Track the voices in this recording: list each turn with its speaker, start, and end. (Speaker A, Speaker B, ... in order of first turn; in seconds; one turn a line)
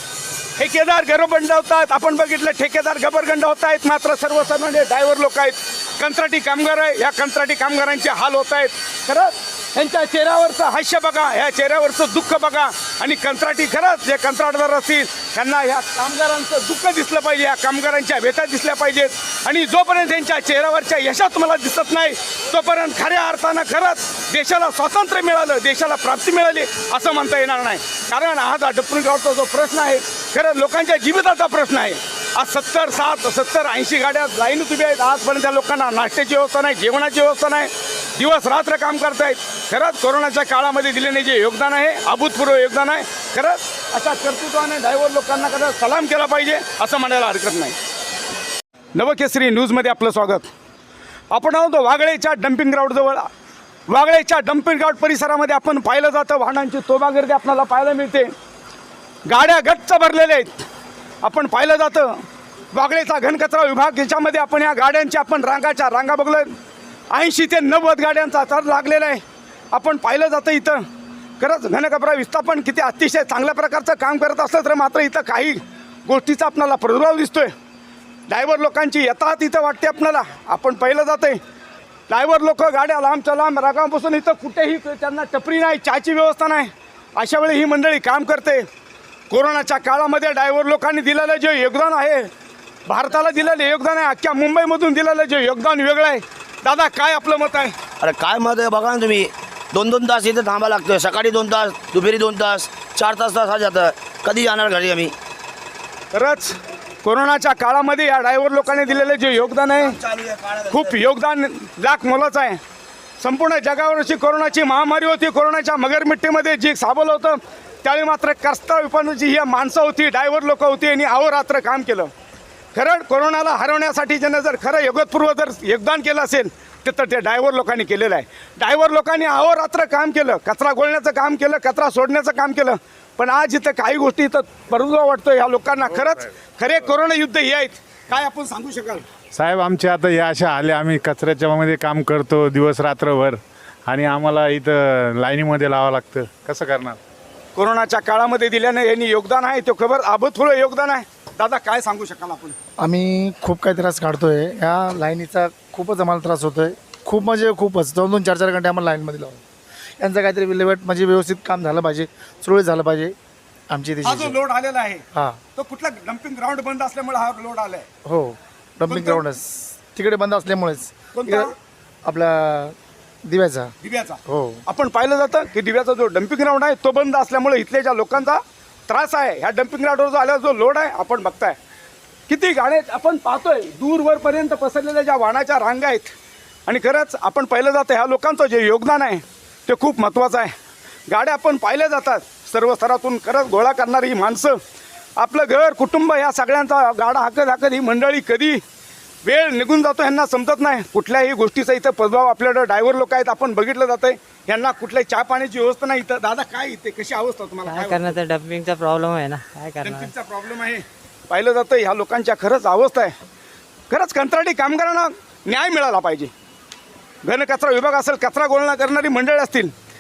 Speaker A: 0.6-47.8
Speaker A: 49.0-50.5
Speaker A: 51.3-53.3
Speaker A: 53.9-58.3
Speaker A: 59.3-60.6
Speaker A: 61.2-62.2
Speaker A: 62.7-66.5
Speaker A: 67.1-69.2
Speaker A: 69.7-70.8
Speaker A: 71.4-77.5
Speaker A: 78.3-81.4
Speaker A: 82.1-88.7
Speaker A: 89.3-92.3
Speaker A: 92.9-97.8
Speaker B: 98.0-105.1
Speaker A: 106.1-110.0
Speaker B: 109.9-110.9
Speaker A: 110.6-112.6
Speaker A: 113.2-122.1
Speaker A: 122.8-139.0
Speaker C: 139.3-147.0
Speaker A: 147.6-152.6
Speaker D: 152.8-159.4
Speaker D: 160.0-163.2
Speaker D: 163.7-164.4
Speaker A: 164.0-167.9
Speaker D: 168.1-171.5
Speaker A: 168.9-169.3
Speaker A: 171.1-171.5
Speaker D: 172.1-173.7
Speaker A: 173.8-181.6
Speaker D: 174.3-174.6
Speaker A: 182.3-186.1
Speaker A: 186.7-190.5
Speaker A: 191.1-194.6
Speaker A: 195.2-198.6
Speaker A: 199.2-208.2
Speaker E: 207.7-210.1
Speaker A: 209.8-213.2
Speaker A: 213.9-216.3
Speaker A: 217.2-219.7